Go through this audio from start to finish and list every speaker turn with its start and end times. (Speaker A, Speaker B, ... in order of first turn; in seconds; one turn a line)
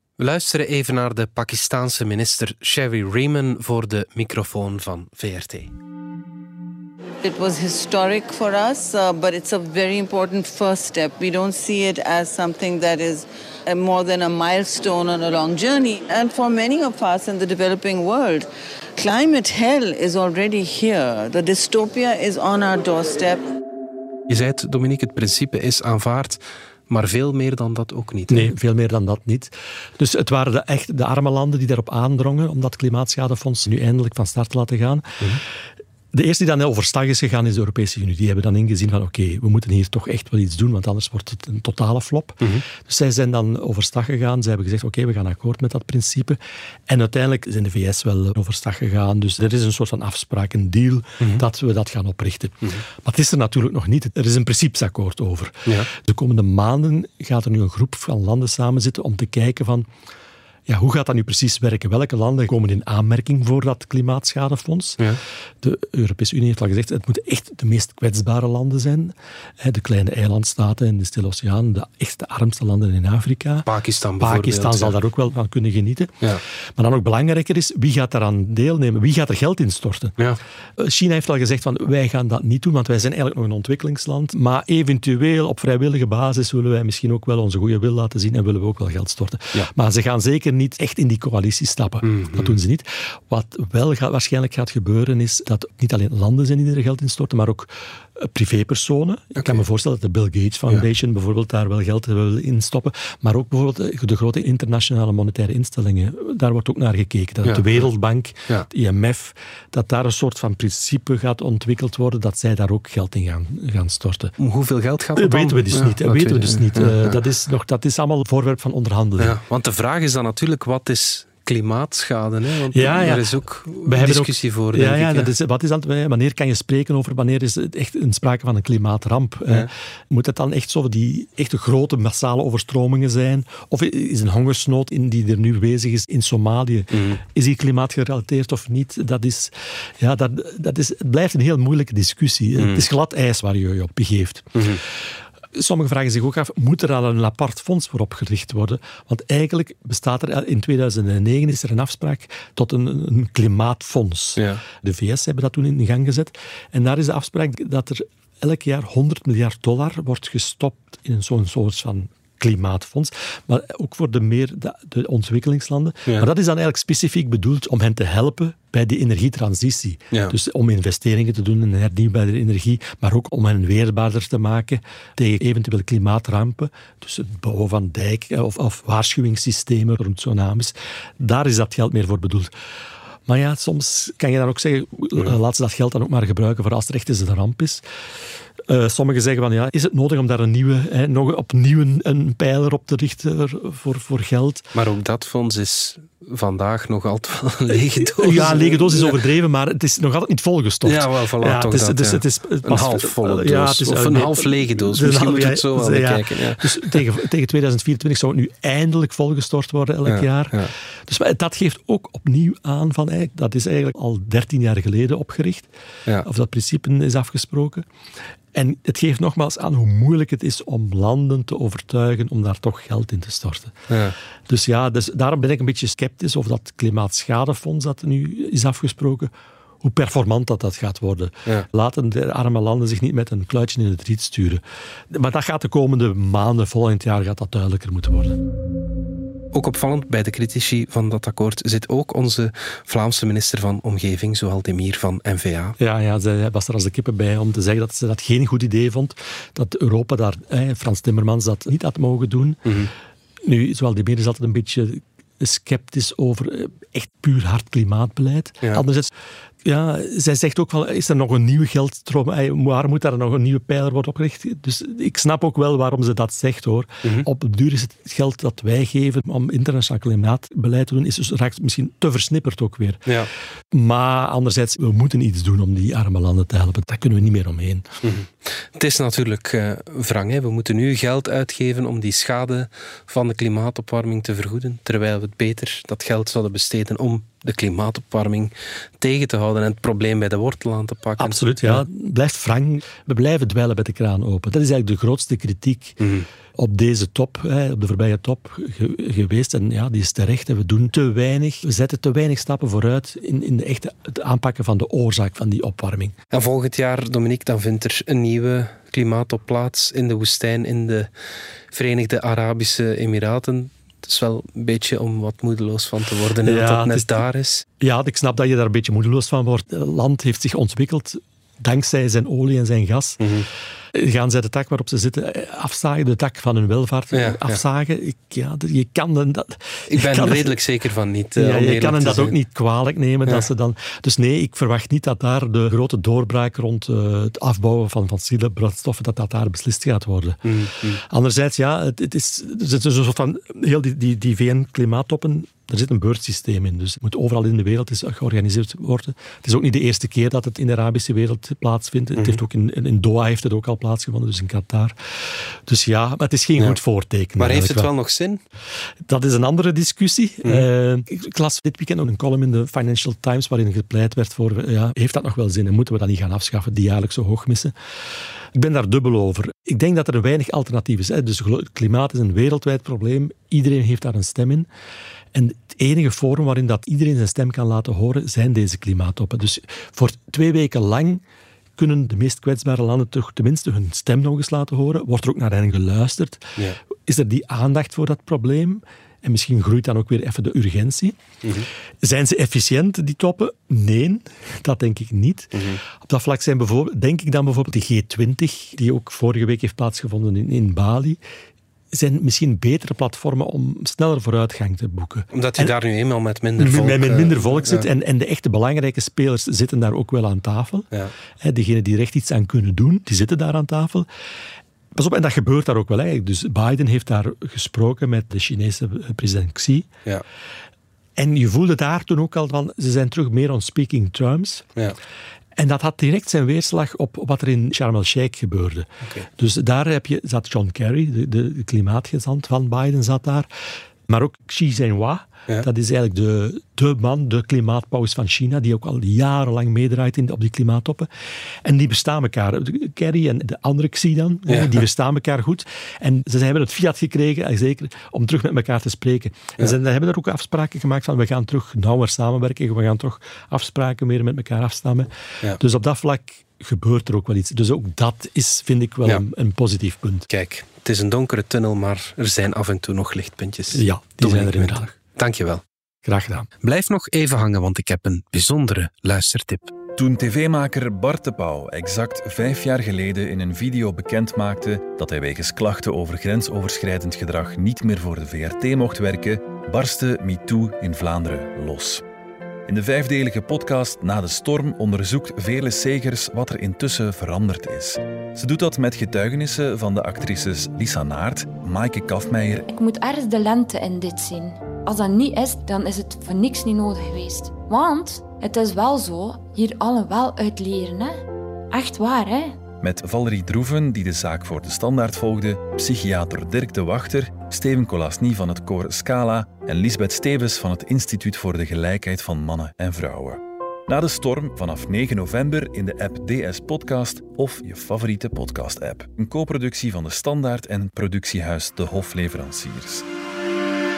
Speaker A: 0.2-5.7
Speaker B: 7.2-23.5
Speaker A: 24.3-28.5
Speaker C: 28.3-35.3
Speaker C: 36.1-59.9
Speaker C: 60.7-65.0
Speaker C: 65.6-73.7
Speaker A: 73.6-75.0
Speaker C: 74.2-76.1
Speaker C: 76.8-80.2
Speaker C: 80.8-114.3
Speaker A: 92.0-92.6
Speaker A: 99.4-99.6
Speaker A: 107.4-107.9
Speaker A: 114.4-117.2
Speaker C: 115.2-119.3
Speaker A: 119.2-125.3
Speaker C: 122.7-145.0
Speaker A: 136.9-137.2
Speaker A: 142.6-142.8
Speaker A: 144.5-144.8
Speaker C: 145.5-182.5
Speaker A: 154.4-154.6
Speaker C: 183.2-187.8
Speaker C: 188.6-194.7
Speaker A: 194.7-199.2
Speaker C: 197.7-215.7
Speaker A: 200.8-207.0
Speaker A: 210.1-210.7
Speaker C: 216.2-217.9
Speaker C: 218.5-223.8
Speaker A: 223.9-224.1
Speaker C: 224.5-238.4
Speaker A: 239.5-245.8
Speaker C: 245.8-252.6
Speaker A: 252.6-252.9
Speaker C: 253.4-259.1
Speaker C: 259.6-273.0
Speaker C: 273.7-277.9
Speaker A: 278.0-291.9
Speaker C: 291.2-296.0
Speaker A: 296.0-296.2
Speaker C: 296.6-306.1
Speaker A: 306.3-311.1
Speaker A: 311.7-317.6
Speaker C: 316.4-317.2
Speaker C: 317.8-323.2
Speaker A: 323.2-323.5
Speaker C: 323.9-330.6
Speaker A: 327.1-327.6
Speaker A: 329.9-332.4
Speaker C: 331.4-357.9
Speaker A: 340.4-341.0
Speaker A: 352.1-352.4
Speaker A: 357.4-358.4
Speaker C: 359.1-367.7
Speaker C: 368.5-374.7
Speaker C: 375.3-381.2
Speaker C: 381.8-391.2
Speaker A: 391.4-391.7
Speaker C: 392.0-401.2
Speaker A: 395.5-395.8
Speaker C: 401.9-405.7
Speaker A: 405.3-407.9
Speaker C: 406.6-410.9
Speaker C: 411.4-414.1
Speaker C: 414.9-419.9
Speaker C: 421.1-424.7
Speaker C: 425.6-433.5
Speaker C: 434.1-441.1
Speaker C: 441.6-460.3
Speaker A: 444.5-444.8
Speaker A: 460.3-465.6
Speaker C: 463.7-464.9
Speaker C: 466.0-466.5
Speaker A: 466.6-469.7
Speaker D: 470.0-482.0
Speaker D: 482.6-492.6
Speaker E: 492.7-501.2
Speaker E: 501.7-502.6
Speaker D: 502.8-523.0